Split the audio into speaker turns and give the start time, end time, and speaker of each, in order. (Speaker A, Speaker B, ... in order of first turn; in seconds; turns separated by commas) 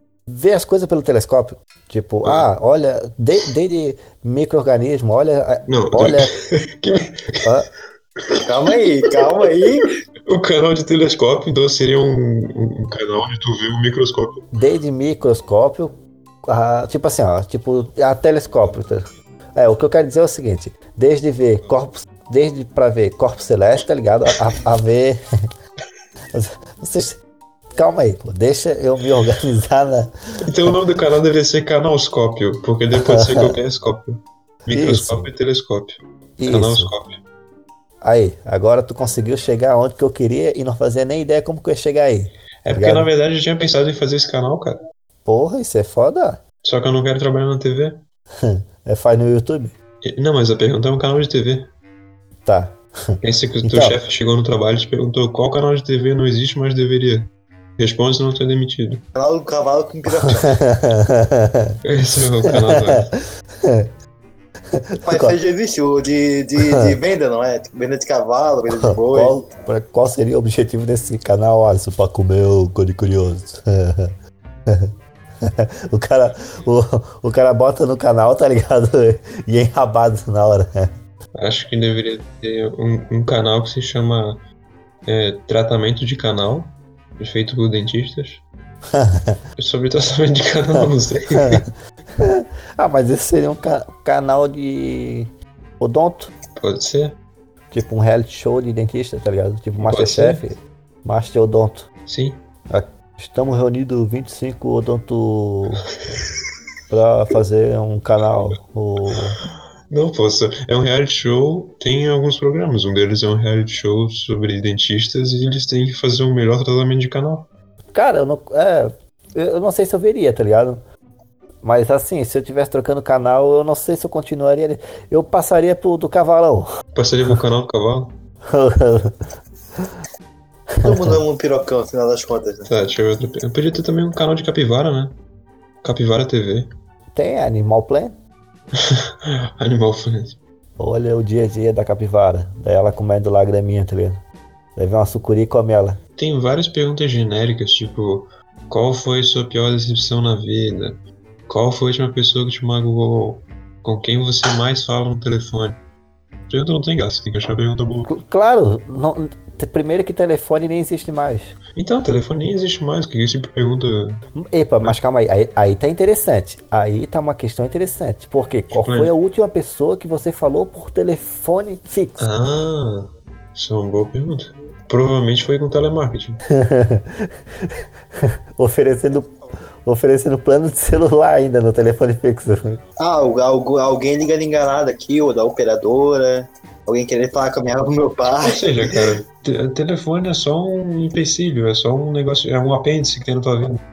Speaker A: 0.3-6.3, Speaker B: 5.7-7.5, Speaker A: 7.4-7.7, Speaker B: 8.2-9.5, Speaker C: 8.4-9.9, Speaker B: 10.2-14.4, Speaker A: 14.5-25.2, Speaker A: 26.3-27.2, Speaker A: 27.7-30.4, Speaker B: 30.4-37.2, Speaker A: 33.0-33.6, Speaker A: 34.7-35.3, Speaker A: 36.4-36.9, Speaker A: 38.0-43.1, Speaker B: 42.6-44.8, Speaker A: 45.2-46.4, Speaker B: 46.6-48.0, Speaker A: 48.4-49.7, Speaker B: 50.0-51.7, Speaker A: 52.4-54.0, Speaker B: 53.2-59.0, Speaker C: 59.1-60.6, Speaker A: 60.2-61.8, Speaker B: 61.8-63.1, Speaker A: 62.6-63.0, Speaker A: 63.6-63.9, Speaker A: 64.7-65.3, Speaker C: 65.0-69.3, Speaker A: 66.6-66.9, Speaker A: 68.7-74.1, Speaker A: 74.7-80.9, Speaker B: 81.3-84.4, Speaker B: 85.0-88.4, Speaker A: 88.9-89.4, Speaker B: 89.6-91.6, Speaker A: 90.8-91.6, Speaker A: 92.2-96.3, Speaker B: 96.5-97.2, Speaker A: 97.7-101.9, Speaker B: 99.8-100.4, Speaker B: 102.1-102.4, Speaker A: 102.7-105.9, Speaker A: 106.9-109.4, Speaker B: 109.9-117.5, Speaker A: 117.9-120.8, Speaker A: 121.6-126.7, Speaker B: 126.9-128.2, Speaker A: 128.5-129.2, Speaker A: 130.7-131.2, Speaker C: 130.8-132.7, Speaker B: 132.7-135.2, Speaker B: 135.8-136.7, Speaker A: 137.1-138.2, Speaker B: 138.8-140.4, Speaker A: 140.8-144.2, Speaker A: 144.8-146.0, Speaker B: 146.2-155.8, Speaker B: 156.5-158.1, Speaker A: 158.1-161.6, Speaker B: 161.7-164.2, Speaker A: 164.4-172.3, Speaker B: 168.7-169.1, Speaker B: 172.2-176.4, Speaker A: 176.5-182.8, Speaker C: 183.0-189.0, Speaker B: 188.4-193.8